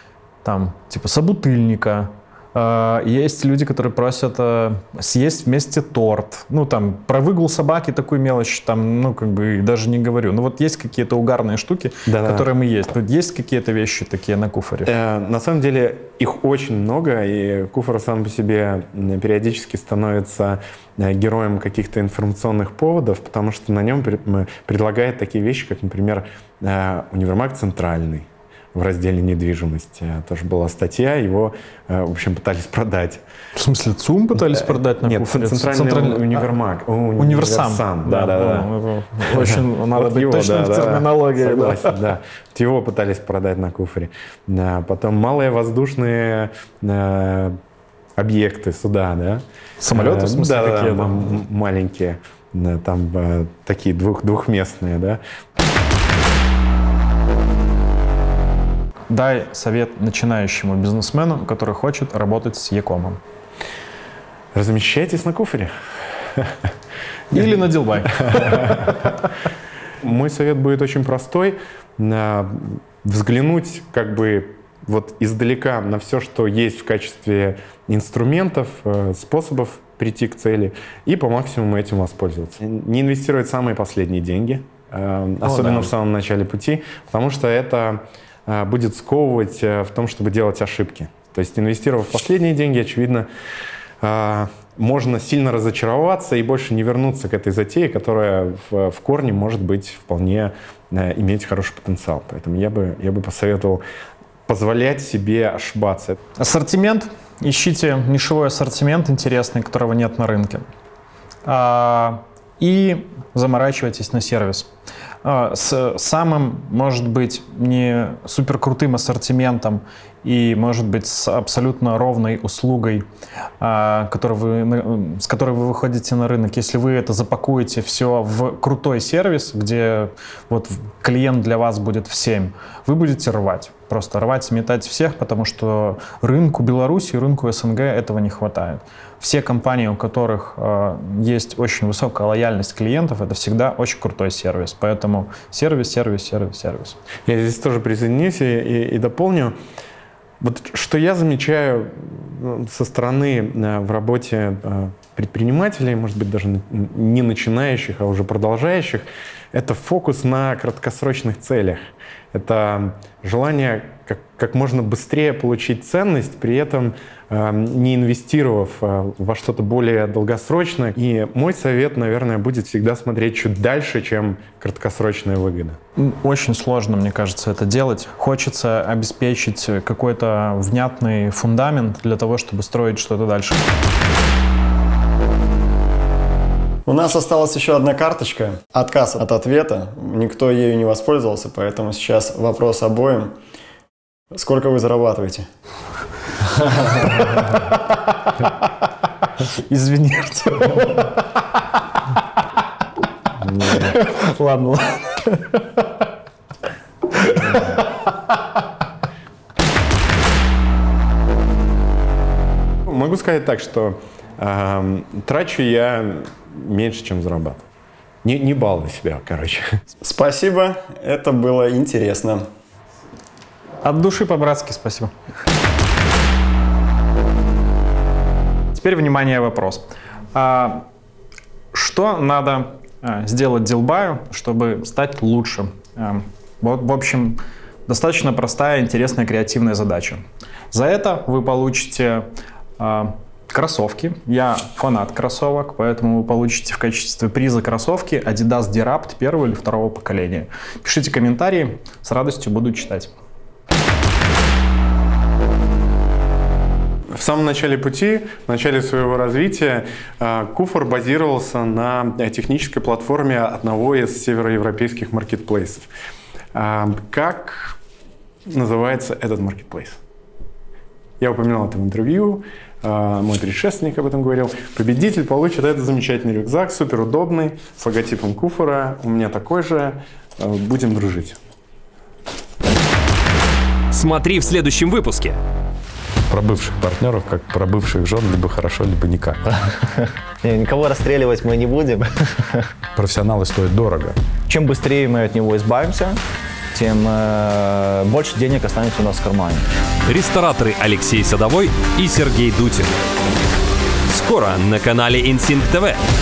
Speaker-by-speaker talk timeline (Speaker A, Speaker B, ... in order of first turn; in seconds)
Speaker A: 0.4-14.9, 33.5-36.6, 37.2-42.0, 49.8-51.1, 59.1-63.2, 67.3-68.9, 85.4-85.9, 106.4-110.7, 111.4-114.7, 115.2-123.0, 123.6-147.0, 176.0-183.7, 199.5-201.1, 203.6-205.7, 207.1-207.8, 223.8-225.1, 228.7-230.8, 231.7-242.3, 242.8-253.1
Speaker B: 12.1-12.5, 14.8-33.2, 34.4-38.7, 39.2-47.6, 48.2-55.2, 64.5-66.6, 68.1-69.1, 70.0-93.3, 94.0-103.8, 104.5-106.2, 147.2-149.6, 150.4-175.8, 212.8-217.6, 218.2-219.8, 257.1-265.9, 266.5-267.8, 268.5-270.0, 271.2-281.4, 286.3-289.4, 292.9-294.2
Speaker C: 186.8-193.3, 194.3-195.5, 196.6-197.2, 220.0-222.4
Speaker D: 283.9-285.4, 300.1-302.9, 304.1-306.0
Speaker E: 289.6-292.7, 294.5-296.2, 296.7-299.7